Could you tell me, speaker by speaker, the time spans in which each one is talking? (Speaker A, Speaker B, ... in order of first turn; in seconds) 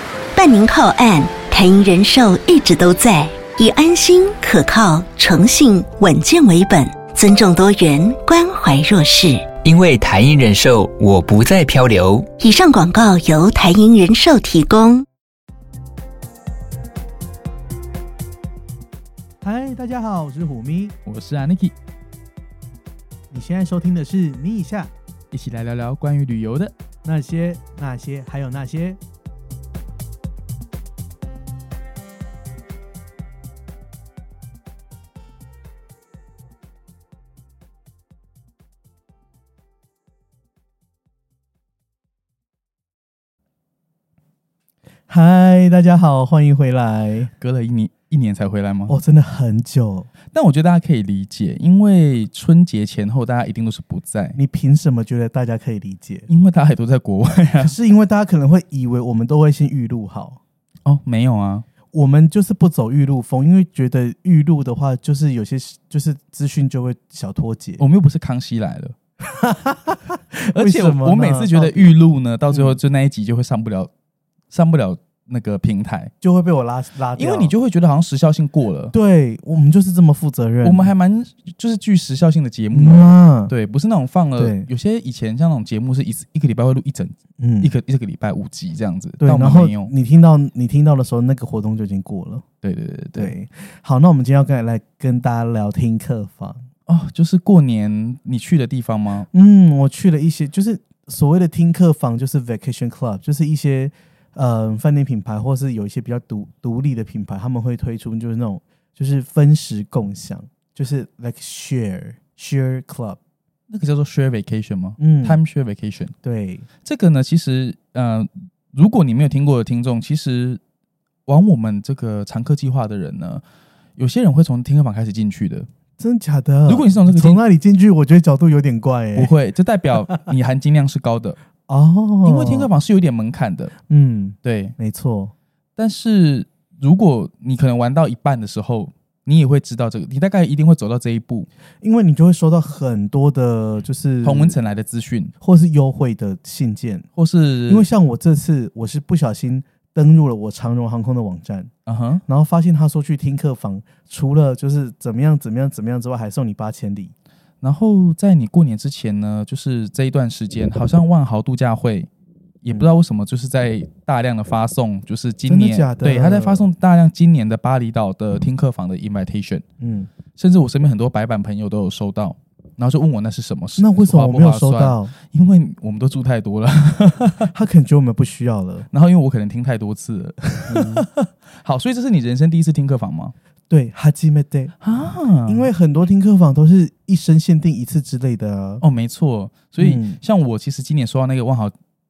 Speaker A: 0.3-9.5, 12.4-15.0
Speaker B: 9.6-12.3
Speaker C: 19.4-20.9, 23.3-24.9, 27.0-29.0, 45.1-47.3, 48.9-50.1, 54.4-56.3, 57.6-60.4, 61.9-67.8, 69.2-71.9, 72.5-72.8, 76.2-77.5, 78.9-80.9, 82.7-83.5, 84.4-84.7, 87.4-87.7, 89.2-92.4, 93.1-96.6, 99.3-113.2, 115.0-115.4, 116.2-116.7, 126.0-129.3, 131.7-132.7, 133.9-135.3, 141.8-144.6, 145.4-147.1, 147.7-151.7, 152.2-157.1, 165.4-166.7, 169.8-170.1, 173.8-175.1, 177.5-178.9, 180.7-181.1, 183.7-184.7, 185.4-188.8, 189.8-190.2
Speaker D: 21.0-21.8, 25.3-26.7, 47.4-49.0, 50.3-54.4, 56.3-57.7, 60.8-61.6, 67.8-69.0, 70.5-73.9, 74.5-76.1, 77.2-78.9, 80.6-89.9, 92.6-93.3, 96.9-99.3, 113.7-116.1, 116.8-120.6, 121.3-123.4, 124.0-125.7, 126.7-127.4, 129.1-131.4, 132.2-133.7, 134.4-134.7, 135.8-141.5, 144.2-145.3, 147.2-147.9, 151.8-152.2, 157.6-162.1, 162.6-169.6, 170.3-177.5, 178.9-183.3, 184.8-185.7, 188.8-191.7